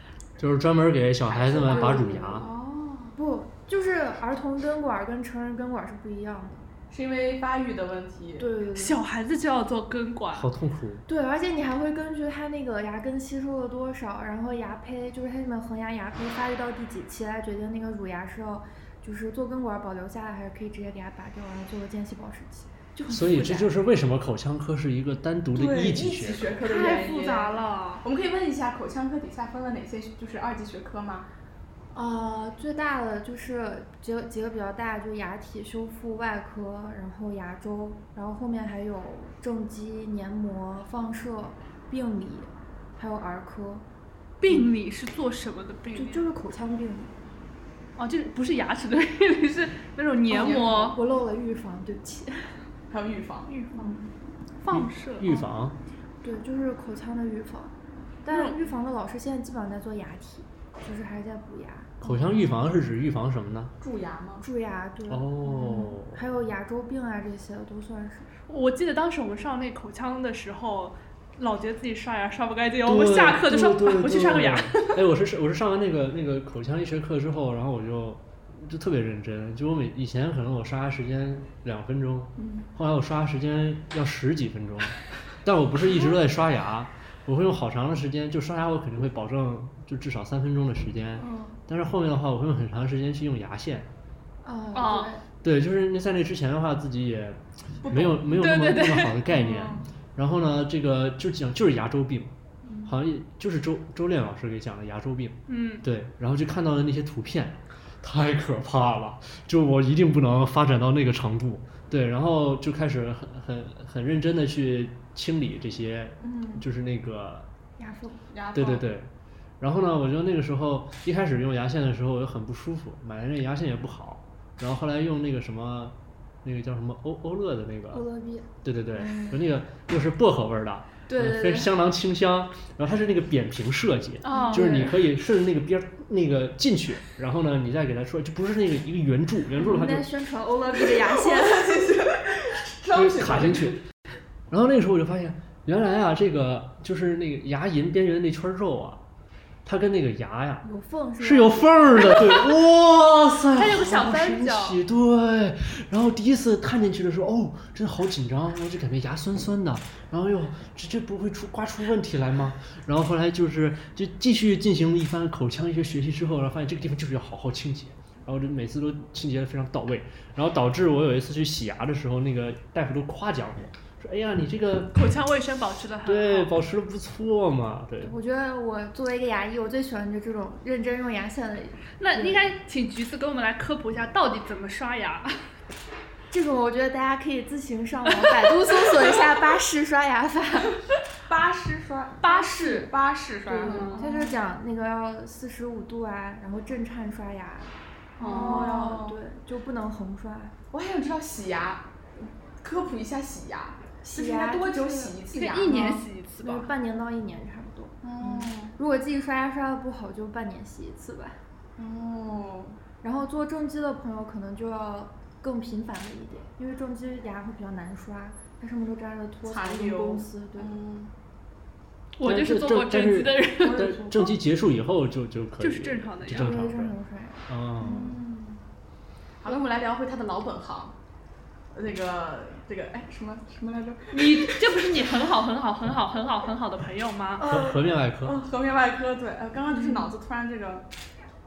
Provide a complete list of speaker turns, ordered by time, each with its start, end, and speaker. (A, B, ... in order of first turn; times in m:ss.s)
0:00.4-0:02.5 A
0:01.3-0:03.1 B
0:01.6-0:02.6 C
0:03.1-0:06.7 C
0:06.9-0:08.5 B
0:08.4-0:09.0 C
0:08.7-0:10.5 D
0:10.3-0:11.0 A
0:11.1-0:23.8 C
0:23.1-0:26.6 A
0:25.5-0:31.3 B
0:26.6-0:28.0 D
0:31.9-0:43.8 C
0:44.4-0:46.2 D
0:45.9-0:47.1 C
0:48.0-0:51.0 D
0:50.3-0:52.6 C
0:50.3-0:50.9 B
0:52.9-0:54.0 B
0:53.5-0:54.0 D
0:53.8-0:54.1 C
0:54.6-0:55.4 D
0:54.7-0:55.8 A
0:56.2-1:02.7 C
0:58.3-0:58.7 B
1:02.0-1:03.7 A
1:03.8-1:04.4 B
1:04.4-1:08.3 C
1:05.1-1:06.2 A
1:08.5-1:14.9 D
1:12.8-1:33.9 A
1:22.4-1:22.6 B
1:31.2-1:31.5 B
1:34.4-1:35.2 C
1:34.7-1:35.1 D
1:35.4-1:42.3 A
1:37.8-1:38.3 B
1:38.3-1:39.2 D
1:39.3-1:39.8 B
1:42.6-1:42.9 C
1:42.8-1:57.5 A
1:45.5-1:45.8 D
1:56.2-1:56.6 C
1:57.8-1:58.3 C
1:58.3-1:58.8 B
1:58.5-2:08.0 A
2:07.9-2:09.4 C
2:08.6-2:20.1 A
2:11.1-2:11.7 C
2:14.2-2:14.7 D
2:14.3-2:15.0 C
2:19.6-2:21.9 C
2:21.0-2:23.8 B
2:22.9-2:23.8 A
2:24.5-2:29.0 A
2:29.6-2:30.6 A
2:30.6-2:32.2 C
2:31.2-2:54.9 A
2:33.6-2:34.8 D
2:54.9-2:56.5 D
2:56.0-2:58.1 A
2:58.0-3:02.4 C
3:02.0-3:05.4 D
3:06.3-3:10.8 C
3:11.3-3:14.4 B
3:12.2-3:12.9 D
3:13.5-3:20.5 C
3:13.6-3:14.1 D
3:18.2-3:18.8 D
3:18.2-3:19.2 B
3:20.7-3:21.9 B
3:22.6-3:25.9 B
3:24.0-3:31.4 C
3:25.3-3:26.7 D
3:28.0-3:28.7 B
3:31.8-3:32.8 B
3:33.0-3:40.8 C
3:39.4-3:41.1 B
3:42.2-3:44.1 D
3:42.2-3:46.9 A
3:43.6-3:44.3 B
3:45.6-3:46.6 D
3:46.3-3:48.2 C
3:47.5-3:48.1 A
3:47.8-3:48.6 B
3:49.4-3:50.9 B
3:51.7-3:54.6 B
3:54.1-3:57.4 D
3:57.4-4:00.9 B
3:57.4-3:58.4 A
3:59.7-4:00.1 C